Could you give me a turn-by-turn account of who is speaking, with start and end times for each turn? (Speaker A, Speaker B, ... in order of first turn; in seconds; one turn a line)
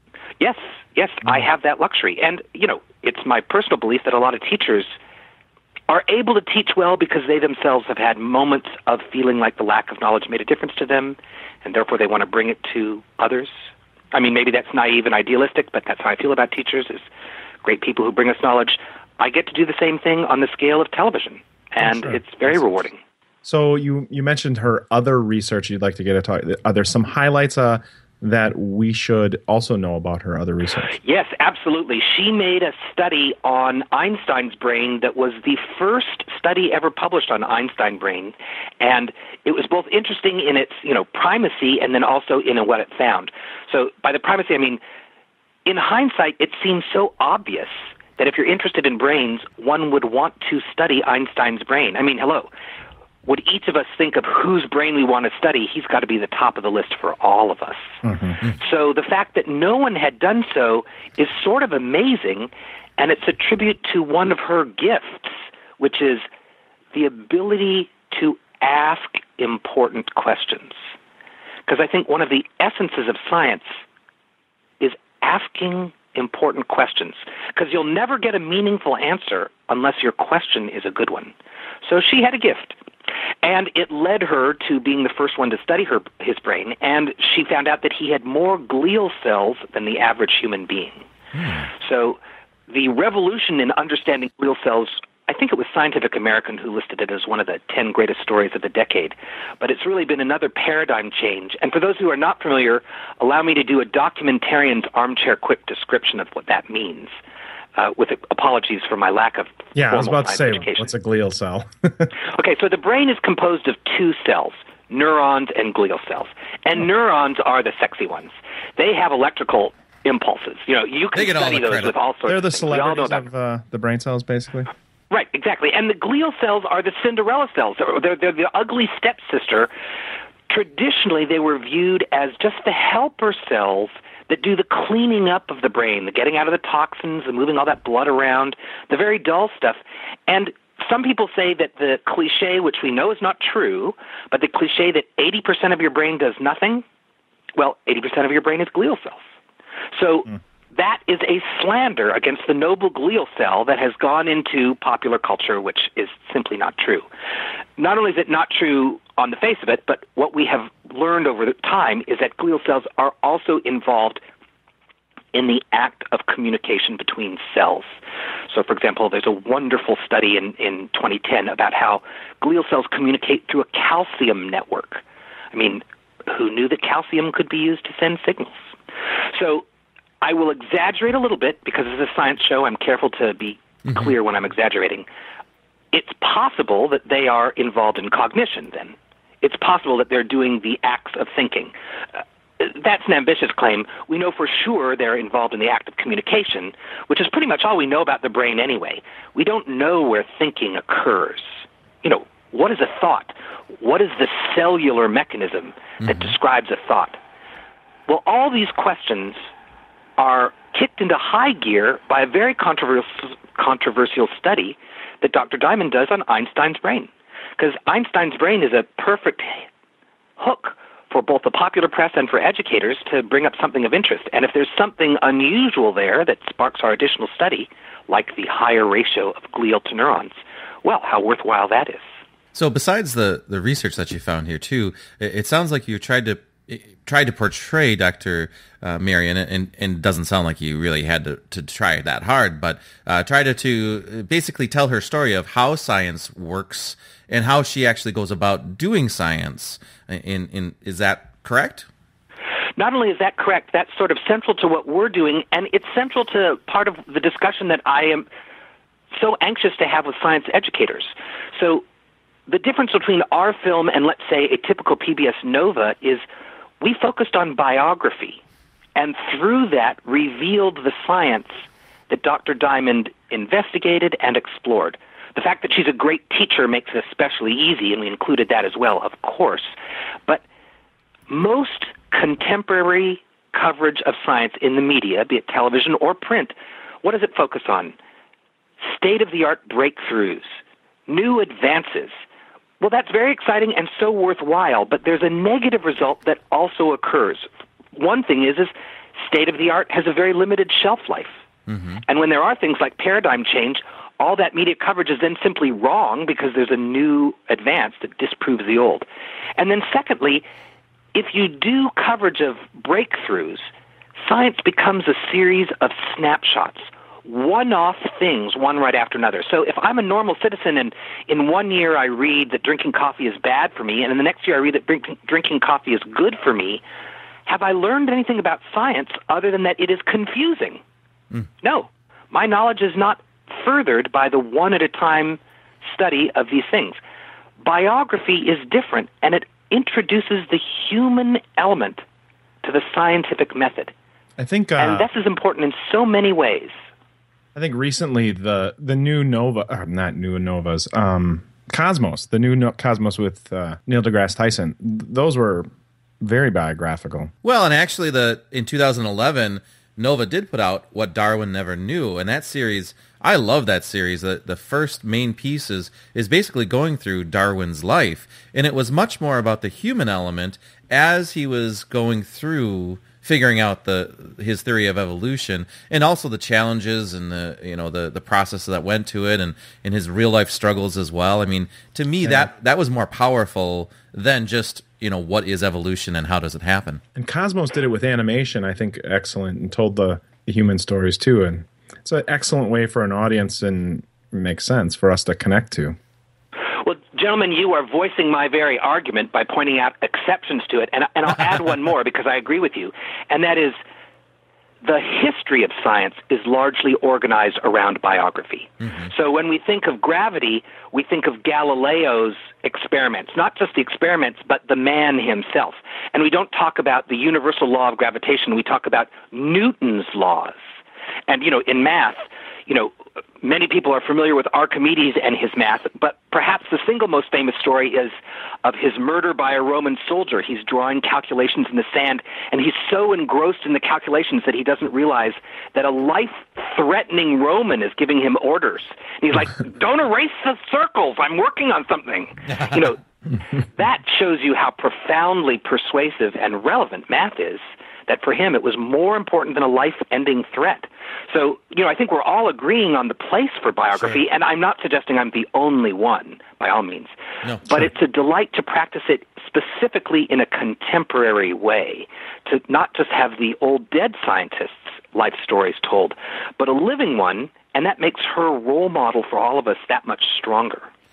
Speaker A: 0.4-4.9
Speaker A: 5.9-13.5
Speaker A: 14.1-17.1
Speaker A: 17.6-23.0
Speaker B: 21.8-22.2
Speaker B: 23.4-30.9
Speaker A: 30.9-44.8
Speaker A: 45.6-52.5
Speaker A: 53.2-66.2
Speaker B: 58.0-58.3
Speaker A: 66.9-70.8
Speaker A: 71.7-73.8
Speaker A: 74.8-82.7
Speaker A: 83.4-91.0
Speaker C: 91.3-91.7
Speaker A: 91.7-107.1
Speaker A: 107.7-110.9
Speaker B: 109.7-112.1
Speaker A: 112.2-123.2
Speaker C: 121.1-121.9
Speaker B: 122.3-124.7
Speaker A: 125.1-129.7
Speaker A: 130.5-146.8
Speaker A: 147.6-149.2
Speaker A: 149.9-157.1
Speaker A: 157.8-164.2
Speaker A: 165.3-167.9
Speaker A: 168.5-178.6
Speaker A: 179.3-179.7
Speaker A: 180.2-185.1
Speaker A: 185.9-191.7
Speaker A: 192.6-207.2
Speaker A: 208.1-209.4
Speaker A: 210.2-219.7
Speaker A: 220.4-232.1
Speaker C: 232.5-251.9
Speaker A: 252.8-258.3
Speaker A: 259.1-261.8
Speaker A: 262.5-266.2
Speaker A: 266.8-268.4
Speaker A: 268.9-279.7
Speaker A: 281.3-287.9
Speaker A: 288.8-292.1
Speaker A: 292.8-301.4
Speaker C: 301.7-302.0
Speaker A: 302.1-309.1
Speaker A: 309.6-310.4
Speaker A: 311.1-313.7
Speaker A: 314.2-326.8
Speaker A: 327.4-330.8
Speaker A: 331.6-337.0
Speaker A: 337.6-342.0
Speaker A: 342.6-343.9
Speaker B: 344.4-345.1
Speaker A: 344.8-346.7
Speaker B: 347.5-355.7
Speaker B: 356.2-357.3
Speaker C: 357.4-387.0
Speaker B: 382.2-382.5
Speaker B: 387.1-396.0
Speaker A: 396.8-403.8
Speaker A: 404.8-420.6
Speaker A: 421.3-443.0
Speaker A: 443.5-470.9